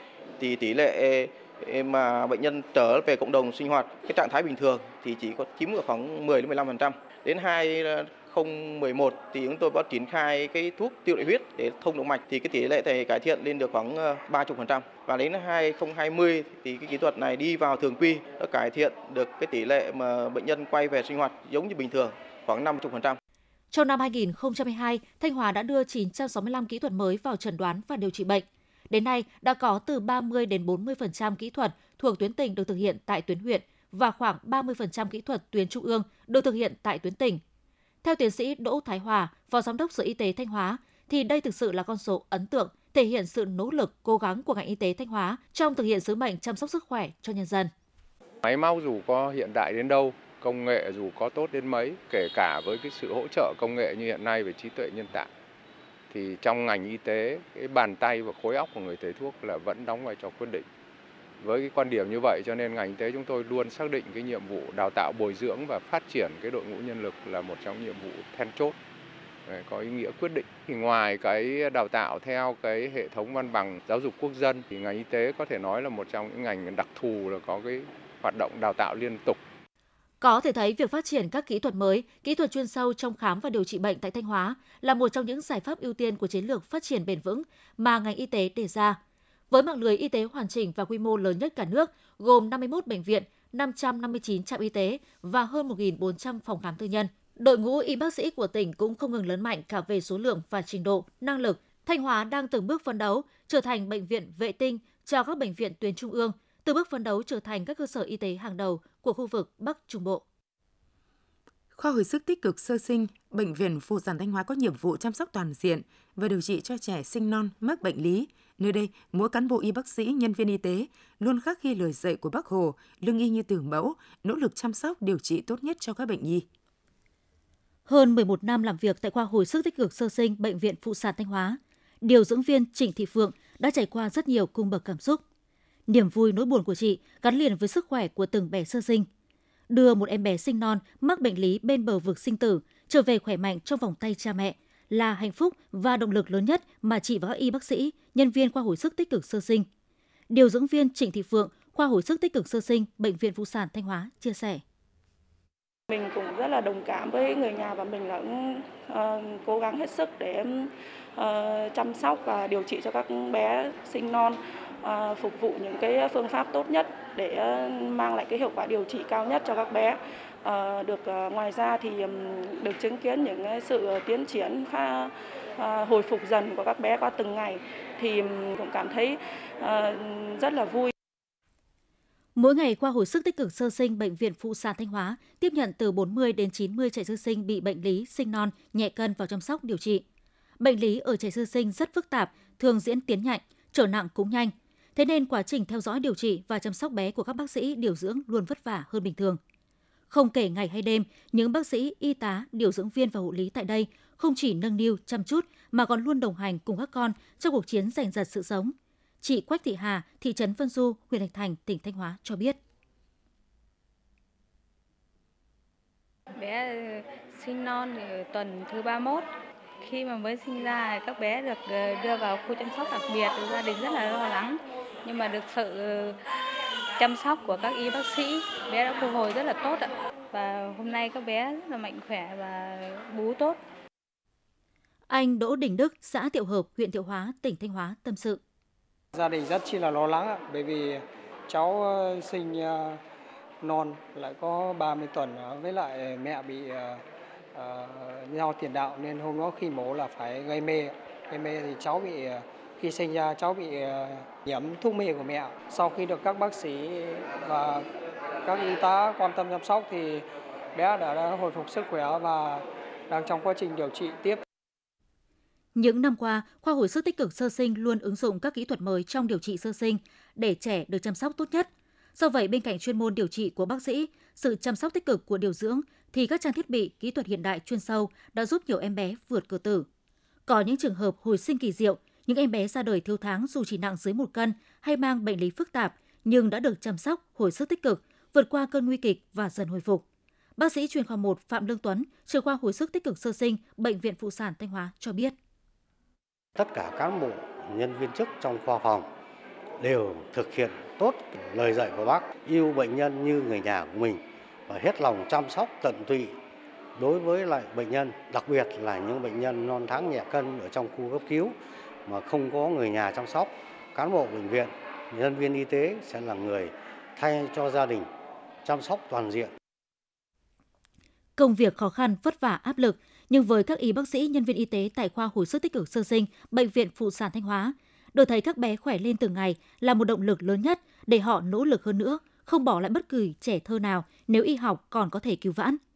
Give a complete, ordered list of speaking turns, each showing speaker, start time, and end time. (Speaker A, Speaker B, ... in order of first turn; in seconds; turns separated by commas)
Speaker A: 0.4-23.2, Speaker B: 23.7-37.4, Speaker B: 38.0-47.7, Speaker C: 48.4-55.3, Speaker C: 56.1-60.7, Speaker C: 61.4-68.7, Speaker C: 69.5-79.4, Speaker B: 80.2-89.0, Speaker B: 89.5-110.2, Speaker D: 111.8-126.5, Speaker B: 127.9-135.2, Speaker B: 135.9-139.1, Speaker B: 139.7-149.7, Speaker B: 150.3-154.6, Speaker E: 155.9-180.9, Speaker B: 182.4-190.0, Speaker B: 190.6-199.4, Speaker B: 200.1-212.6, Speaker F: 216.3-219.3, Speaker F: 219.8-226.2, Speaker F: 227.0-233.6, Speaker B: 235.1-238.4, Speaker G: 239.1-243.0, Speaker G: 243.6-247.0, Speaker G: 247.6-257.9, Speaker G: 258.4-264.4, Speaker B: 265.8-279.9, Speaker B: 280.5-290.0, Speaker B: 290.6-295.4, Speaker H: 296.6-299.1, Speaker H: 299.8-306.4, Speaker H: 307.0-318.1, Speaker H: 318.6-319.5, Speaker B: 321.4-335.8